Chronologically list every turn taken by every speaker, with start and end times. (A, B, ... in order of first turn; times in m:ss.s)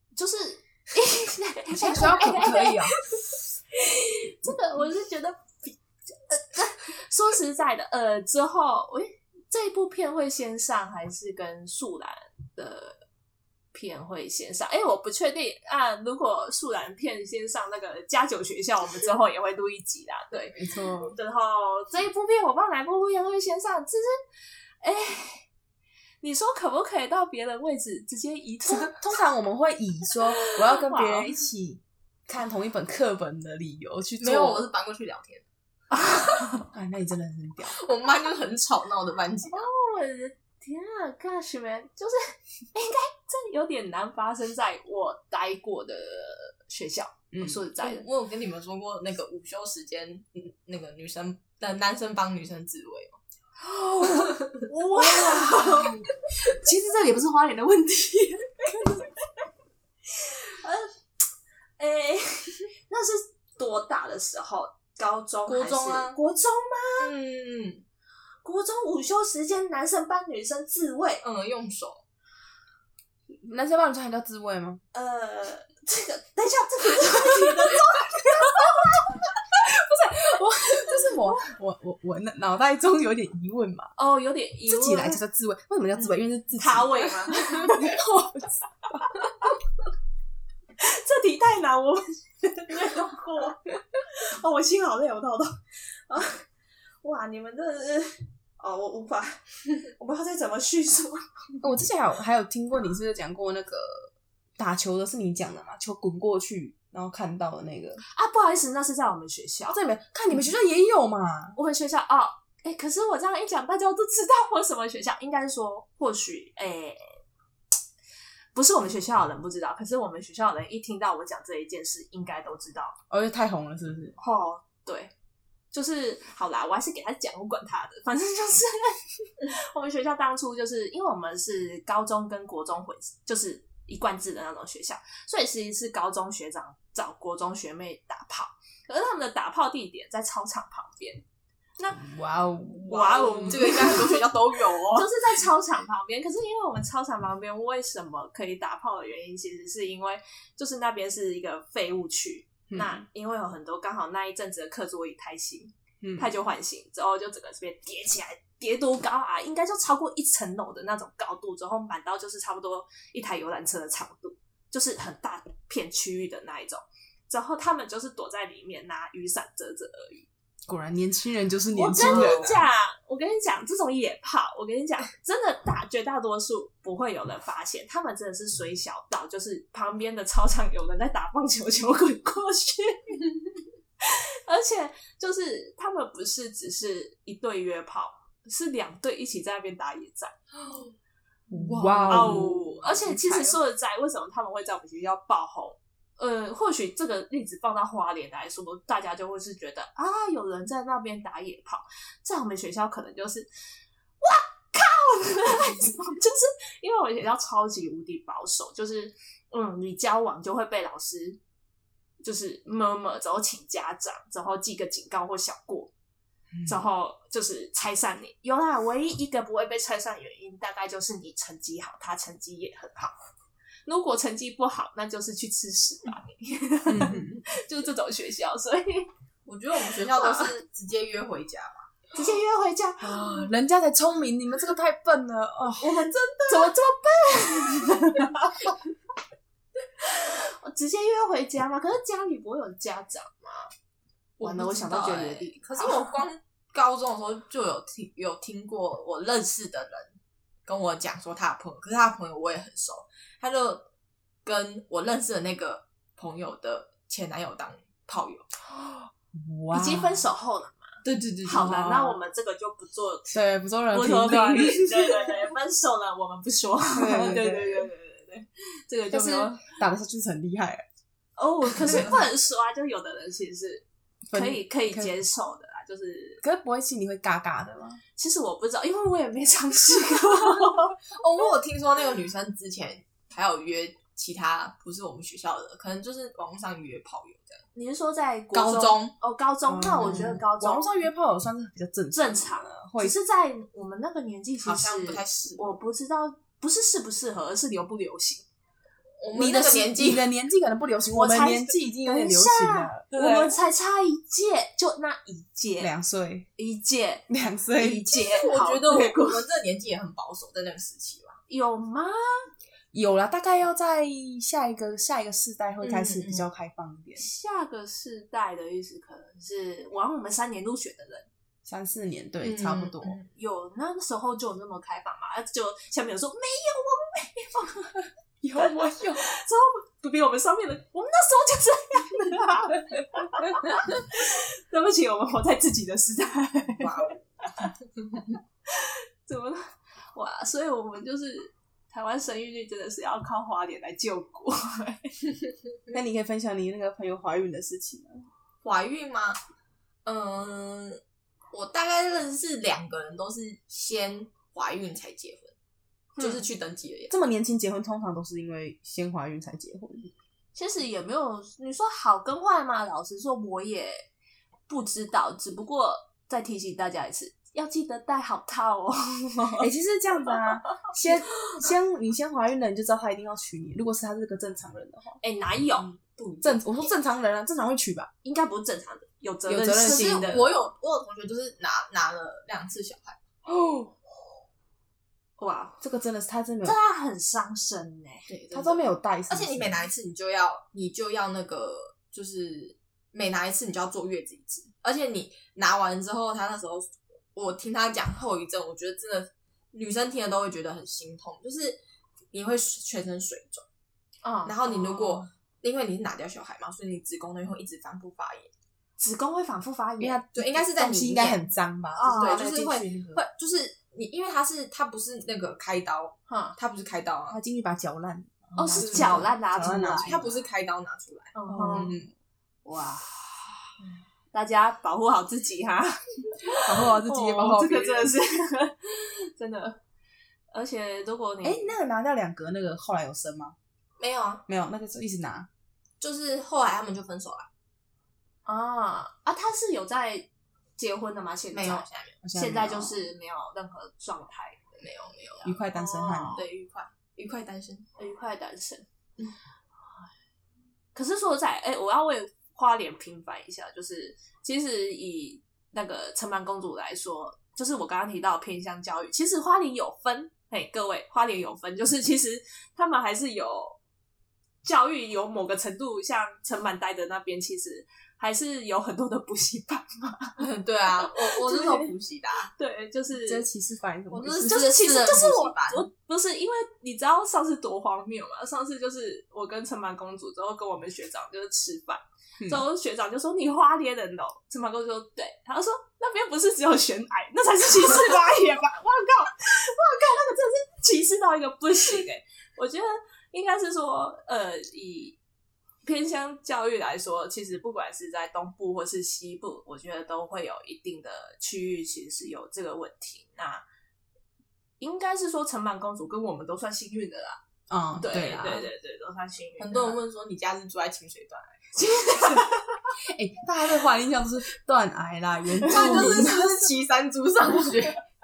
0:00.2-0:13.0 A
0:01.7-0:03.0 B
0:13.7-0:24.2 A
0:20.6-0:21.2 B
0:24.8-0:25.5 A
0:26.2-0:29.1 A
0:28.6-0:34.7 B
0:30.4-0:31.4 A
0:34.2-0:35.4 C
0:35.9-0:36.7 A
0:36.7-0:37.8 B
0:37.7-0:39.7 C
0:39.5-0:42.2 A
0:42.7-0:48.1 A
0:47.3-0:47.6 B
0:47.8-0:53.2 C
0:53.9-0:58.9 B
0:54.0-0:56.0 A
0:55.1-0:56.0 C
1:00.2-1:00.9 A
1:01.8-1:07.1 A
1:05.5-1:06.2 C
1:07.0-1:07.8 C
1:08.4-1:11.2 A
1:11.2-1:12.0 C
1:13.3-1:14.8 B
1:14.9-1:19.1 A
1:19.6-1:23.9 B
1:24.0-1:25.2 A
1:24.6-1:28.6 B
1:26.6-1:27.9 A
1:30.8-1:36.4 A
1:37.0-1:41.2 A
1:41.6-1:48.0 B
1:48.1-1:49.8 A
1:49.7-1:51.6 B
1:51.6-1:57.2 A
1:58.6-2:03.0 A
2:03.1-2:04.2 B
2:04.2-2:05.1 A
2:05.7-2:21.2 A
2:21.9-2:24.0 B
2:22.9-2:24.2 A
2:23.5-2:25.1 C
2:24.9-2:50.3 A
2:32.7-2:33.0 B
2:36.0-2:36.3 B
2:50.7-2:52.6 B
2:51.7-3:03.3 A
2:52.0-2:52.6 C
3:04.0-3:10.3 A
3:10.7-3:10.9 C
3:11.5-3:13.6 B
3:11.5-3:12.5 C
3:12.1-3:23.5 A
3:24.2-3:31.4 A
3:32.2-3:35.9 A
3:36.5-3:36.8 B
3:36.6-3:43.1 A
3:43.9-3:49.1 A
3:46.9-3:47.4 B
3:49.5-3:51.9 C
3:49.9-3:50.5 A
3:52.1-3:53.2 A
3:53.0-3:56.0 B
3:55.8-3:58.7 A
3:56.1-3:56.7 C
4:00.0-4:03.7 A
4:04.4-4:13.9 C
4:04.4-4:06.1 A
4:14.4-4:18.5 C
4:19.3-4:20.2 B
4:19.7-4:23.4 A
4:21.0-4:22.0 C
4:21.6-4:22.1 B
4:23.3-4:25.5 B
4:23.9-4:29.6 A
4:27.0-4:27.9 B
4:29.1-4:30.8 B
4:31.4-4:36.4 A
4:34.3-4:35.1 B
4:36.4-4:38.0 B
4:38.2-4:41.0 A
4:41.1-4:47.6 C
4:47.7-4:50.9 A
4:48.5-4:49.1 C
4:49.7-4:53.1 B
4:50.0-4:50.4 C
4:52.1-4:58.5 A
4:54.6-4:55.7 C
4:59.2-5:00.3 C
4:59.3-5:03.5 B
5:01.1-5:05.9 A
5:05.8-5:06.5 B
5:06.6-5:09.4 A
5:07.3-5:08.1 B
5:08.1-5:11.4 C
5:11.5-5:12.5 A
5:12.9-5:17.3 B
5:15.8-5:16.5 C
5:17.2-5:21.3 A
5:21.6-5:23.2 B
5:22.4-5:23.3 C
5:23.4-5:28.0 A
5:28.4-5:29.3 B
5:28.6-5:37.7 A
5:36.7-5:38.2 C
5:38.7-5:45.2 A
5:45.9-5:48.3 B
5:48.6-5:49.4 C
5:50.0-5:51.0 C
5:51.5-5:55.5 C
5:56.2-5:56.4 A
5:56.2-5:57.1 C
5:57.1-6:00.1 B
6:00.6-6:04.1 A
6:04.7-6:09.7 A
6:09.6-6:15.2 B
6:15.2-6:15.9 A
6:15.9-6:16.9 C
6:16.4-6:18.1 B
6:18.2-6:20.5 A
6:19.5-6:20.5 B
6:19.8-6:23.2 C
6:23.5-6:24.0 B
6:25.4-6:25.8 A
6:25.8-6:26.8 B
6:26.6-6:28.3 A
6:28.3-6:41.8 C
6:28.5-6:29.8 B
6:42.3-6:43.6 C
6:44.2-6:45.3 A
6:44.4-6:48.5 C
6:49.0-6:50.2 A
6:50.0-6:53.2 B
6:50.3-6:51.4 C
6:52.0-6:52.5 A
6:52.0-6:57.4 C
6:56.3-6:56.6 A
6:57.3-7:00.3 B
6:58.6-7:00.2 A
6:58.7-6:59.2 C
7:00.0-7:02.0 C
7:01.3-7:02.0 A
7:01.5-7:02.1 B
7:02.6-7:03.1 A
7:04.3-7:09.8 A
7:06.6-7:08.2 B
7:10.5-7:11.7 A
7:11.4-7:13.6 B
7:14.0-7:14.4 C
7:14.5-7:15.5 B
7:16.0-7:17.5 C
7:18.5-7:24.8 A
7:21.5-7:22.2 C
7:22.2-7:23.0 B
7:24.8-7:25.5 C
7:25.4-7:26.4 B
7:25.5-7:26.4 A
7:26.3-7:27.9 C
7:28.0-7:28.9 A
7:31.0-7:43.8 A
7:44.6-7:50.4 A
7:50.4-7:52.5 C
7:51.0-7:51.9 A
7:52.5-7:53.5 A
7:53.2-7:54.6 B
7:54.1-8:15.2 A
7:54.2-7:55.8 C
8:02.4-8:02.6 B
8:15.8-8:23.6 A
8:24.8-8:27.4 A
8:27.7-8:28.7 B
8:28.0-8:30.0 A
8:29.6-8:32.3 C
8:31.8-8:32.7 A
8:33.0-8:36.6 B
8:35.6-8:36.3 A
8:35.7-8:38.0 C